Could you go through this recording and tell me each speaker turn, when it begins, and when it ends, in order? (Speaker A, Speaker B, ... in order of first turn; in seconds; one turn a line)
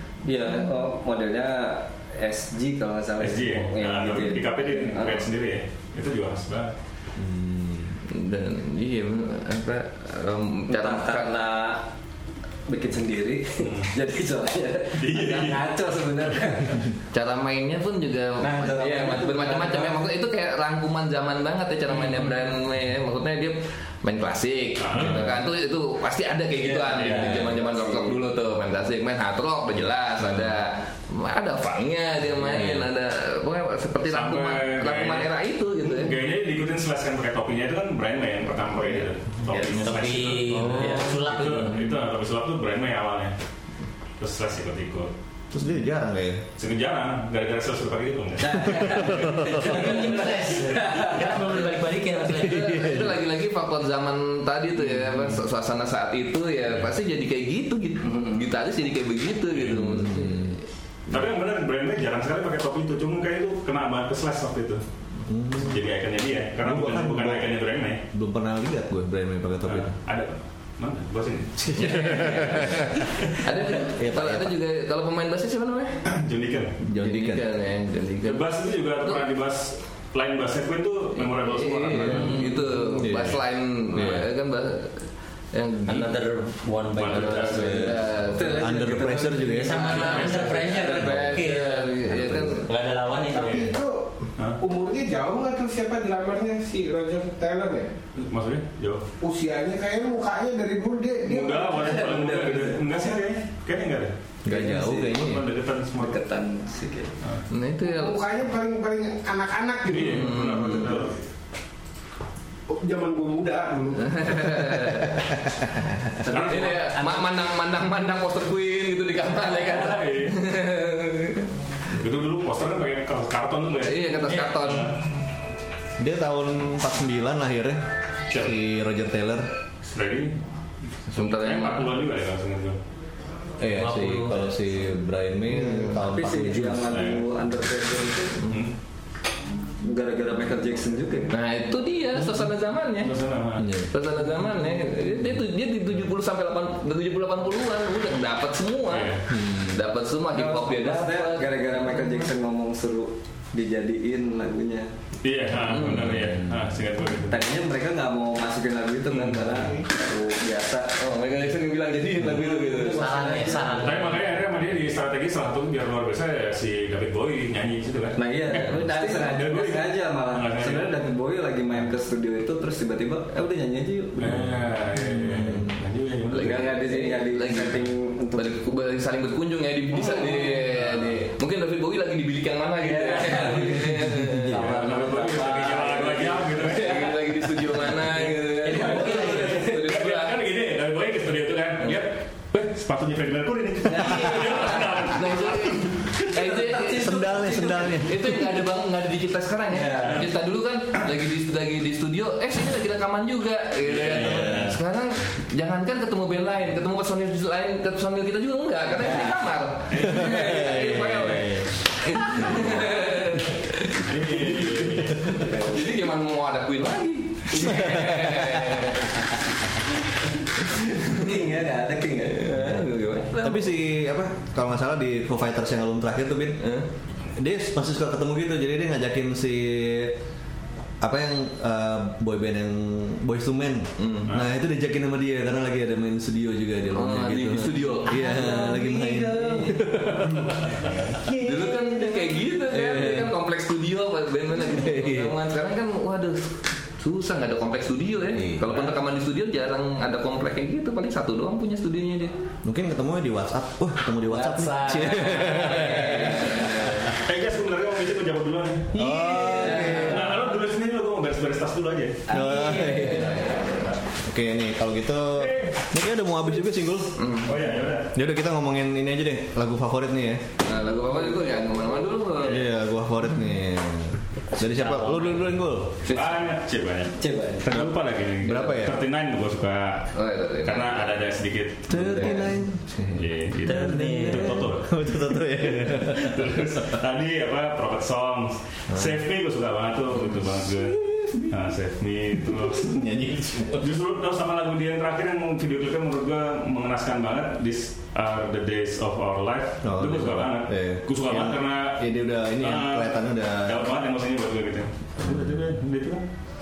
Speaker A: 0.2-5.3
Speaker B: 3.2-6.7
Speaker C: 7.2-8.0
Speaker D: 8.1-11.3
Speaker A: 10.7-11.9
Speaker A: 12.7-16.9
Speaker B: 13.6-13.9
Speaker B: 15.0-15.7
Speaker D: 17.1-36.2
Speaker A: 18.4-20.0
Speaker B: 24.8-25.4
Speaker A: 26.6-28.2
Speaker B: 26.8-27.5
Speaker C: 32.5-32.9
Speaker B: 34.0-43.4
Speaker D: 39.5-39.8
Speaker E: 39.7-41.9
Speaker C: 40.5-41.0
Speaker B: 44.2-45.1
Speaker C: 45.5-46.4
Speaker B: 46.6-49.0
Speaker A: 48.4-51.3
Speaker E: 48.8-52.8
Speaker C: 48.9-49.7
Speaker D: 52.3-60.6
Speaker C: 52.4-53.2
Speaker B: 54.9-55.3
Speaker A: 58.0-58.4
Speaker B: 59.5-60.0
Speaker C: 59.7-60.6
Speaker B: 61.1-64.8
Speaker C: 65.3-65.8
Speaker B: 65.5-68.0
Speaker C: 66.6-67.5
Speaker C: 68.1-69.9
Speaker B: 69.7-73.4
Speaker C: 71.6-73.0
Speaker D: 72.2-76.0
Speaker C: 73.7-74.6
Speaker B: 76.1-76.8
Speaker C: 76.8-77.5
Speaker D: 77.0-78.5
Speaker B: 78.2-82.6
Speaker D: 81.2-86.2
Speaker C: 81.9-84.3
Speaker E: 85.9-88.1
Speaker B: 87.0-87.9
Speaker D: 87.0-88.8
Speaker C: 87.6-90.0
Speaker A: 88.3-90.3
Speaker E: 89.4-93.8
Speaker D: 89.8-92.7
Speaker B: 89.9-90.6
Speaker C: 92.0-92.6
Speaker F: 93.3-97.9
Speaker B: 98.2-99.0
Speaker F: 99.2-102.2
Speaker B: 101.2-104.1
Speaker A: 102.0-102.8
Speaker C: 104.5-105.5
Speaker A: 104.5-105.3
Speaker B: 104.8-106.2
Speaker A: 105.9-107.2
Speaker D: 107.5-108.2
Speaker F: 107.8-110.5
Speaker B: 109.9-111.2
Speaker D: 110.0-111.1
Speaker F: 112.7-114.5
Speaker D: 114.0-115.3
Speaker C: 115.5-115.8
Speaker D: 116.2-121.5
Speaker A: 116.3-116.7
Speaker B: 116.3-116.7
Speaker E: 116.7-117.2
Speaker B: 119.7-120.4
Speaker B: 121.9-124.1
Speaker D: 123.8-125.0
Speaker E: 124.2-124.6
Speaker B: 124.6-124.9
Speaker C: 126.0-127.8
Speaker B: 128.3-128.6
Speaker C: 128.3-129.5
Speaker B: 129.8-130.3
Speaker B: 131.1-132.8
Speaker D: 131.1-131.9
Speaker C: 133.6-137.0
Speaker E: 133.8-134.5
Speaker A: 135.5-138.4
Speaker B: 136.9-137.2
Speaker B: 138.4-138.7
Speaker A: 139.8-141.3
Speaker D: 141.3-143.2
Speaker B: 143.0-143.7
Speaker C: 143.6-143.9
Speaker D: 143.8-152.3
Speaker B: 148.9-149.2
Speaker C: 149.3-149.8
Speaker A: 150.3-154.9
Speaker B: 155.2-157.4
Speaker D: 155.7-156.3
Speaker A: 157.3-160.9
Speaker B: 159.1-159.7
Speaker D: 161.0-163.4
Speaker A: 162.2-164.2
Speaker E: 162.8-164.4
Speaker B: 163.7-170.9
Speaker A: 168.2-174.5
Speaker B: 174.2-176.7
Speaker C: 175.1-175.8
Speaker D: 176.3-184.8
Speaker A: 176.4-178.6
Speaker A: 180.0-180.6
Speaker B: 180.7-181.1
Speaker A: 182.8-186.8
Speaker C: 184.1-184.6
Speaker B: 184.5-187.2
Speaker D: 186.6-190.3
Speaker A: 188.1-189.1
Speaker E: 188.6-189.6
Speaker B: 188.7-196.3
Speaker A: 193.9-195.0
Speaker D: 195.1-214.8
Speaker A: 196.3-198.1
Speaker C: 197.0-198.5
Speaker A: 199.7-200.3
Speaker B: 203.9-204.8
Speaker B: 209.9-211.6
Speaker C: 212.3-212.7
Speaker B: 214.0-215.4
Speaker A: 215.3-215.8
Speaker D: 215.4-219.2
Speaker A: 217.5-218.1
Speaker C: 217.6-218.9
Speaker D: 220.6-221.4
Speaker A: 221.0-223.3
Speaker D: 222.5-223.8
Speaker C: 222.5-226.6
Speaker D: 226.6-226.9
Speaker C: 227.3-230.2
Speaker C: 231.0-240.9
Speaker D: 234.0-234.3
Speaker D: 236.9-238.3
Speaker E: 238.3-239.7
Speaker A: 238.8-239.9
Speaker D: 241.4-252.3
Speaker E: 241.7-242.0
Speaker C: 242.7-243.4
Speaker C: 244.6-245.3
Speaker C: 248.4-248.8
Speaker C: 252.6-257.0
Speaker E: 254.3-257.1
Speaker D: 256.3-256.7
Speaker B: 257.1-262.2
Speaker C: 258.9-260.3
Speaker E: 259.0-260.2
Speaker D: 259.6-260.1
Speaker C: 262.3-263.5
Speaker D: 262.3-263.9
Speaker E: 262.7-263.0
Speaker C: 264.2-267.2
Speaker B: 265.4-265.9
Speaker D: 267.2-267.6
Speaker B: 267.4-268.1
Speaker C: 268.1-270.4
Speaker D: 270.6-272.7
Speaker C: 272.4-276.0
Speaker E: 274.7-275.6
Speaker D: 276.1-276.4
Speaker B: 276.1-280.1
Speaker A: 277.2-277.8
Speaker C: 278.4-279.0
Speaker D: 280.1-281.2
Speaker B: 280.6-282.5
Speaker C: 281.9-287.0
Speaker D: 281.9-282.4
Speaker B: 283.1-285.0
Speaker E: 283.6-284.6
Speaker B: 285.8-293.0
Speaker C: 288.9-289.2
Speaker C: 290.8-291.4
Speaker C: 292.5-293.9
Speaker B: 293.8-302.1
Speaker C: 299.8-303.9
Speaker B: 302.6-306.2
Speaker C: 305.2-305.5